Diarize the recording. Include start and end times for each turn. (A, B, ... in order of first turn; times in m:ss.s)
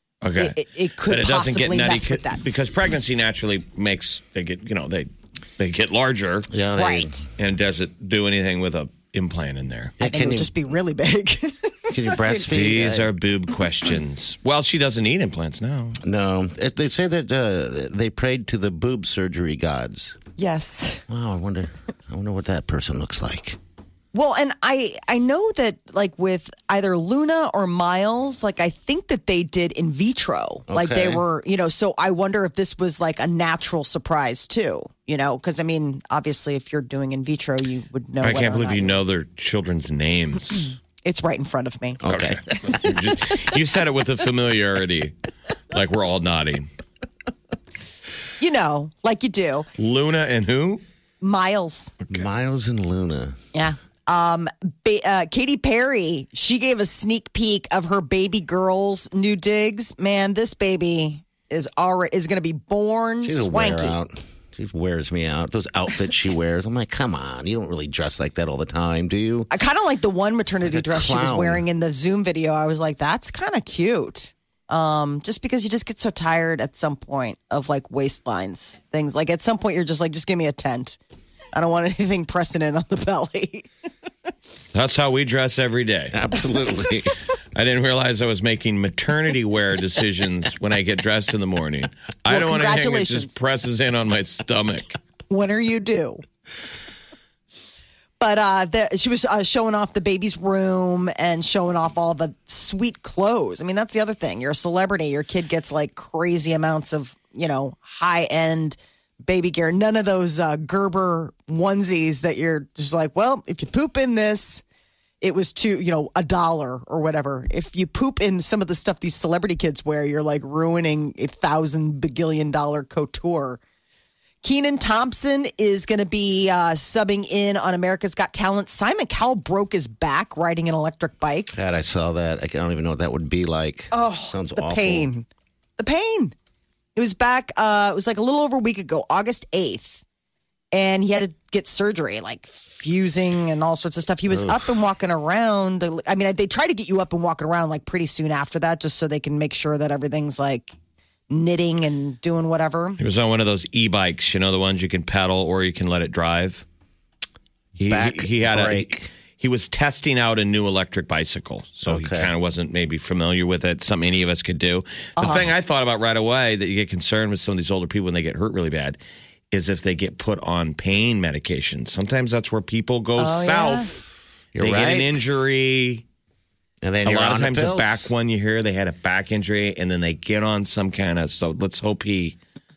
0:00.2-0:06.5 A
0:00.4-0:02.4 B
0:06.5-0:07.1 C
0:06.8-0:07.3 B
0:07.4-0:10.0 A
0:10.0-0:10.5 C
0:10.0-0:12.5 B
0:11.9-0:13.1 C
0:12.5-0:16.0 A
0:16.0-0:20.2 C
0:20.4-0:21.0 B
0:21.1-0:23.6 C
0:24.1-0:39.0 B
0:30.7-0:31.2 C
0:38.2-0:40.7 A
0:41.0-0:42.0 B
0:42.0-0:42.8 C
0:42.0-0:45.1 A
0:45.7-0:46.7 A
0:48.4-0:49.7 B
0:49.8-0:50.8 A
0:51.2-0:51.9 B
0:52.1-0:53.4 C
0:53.5-1:04.0 B
1:03.2-1:09.5 C
1:09.5-1:21.0 B
1:10.6-1:11.6 C
1:21.5-1:23.7 B
1:24.7-1:26.2 A
1:26.1-1:27.1 C
1:27.5-1:35.0 A
1:32.3-1:33.4 B
1:35.3-1:36.2 B
1:38.2-1:54.6 B
1:55.2-2:03.6 B
2:04.4-2:11.5 B
2:11.5-2:15.1 C
2:13.9-2:15.3 B
2:15.8-2:16.3 B
2:16.9-2:20.0 B
2:20.7-2:30.7 B
2:24.3-2:24.7 C
2:31.3-2:33.0 B
2:33.0-2:36.6 A
2:37.8-2:49.0 A
2:37.9-2:39.1 C
2:41.8-2:42.3 C
2:45.2-2:45.5 B
2:49.5-2:54.0 A
2:53.2-2:53.9 B
2:54.5-2:55.2 C
2:54.6-2:56.0 A
2:56.8-2:58.1 C
2:57.0-3:02.4 A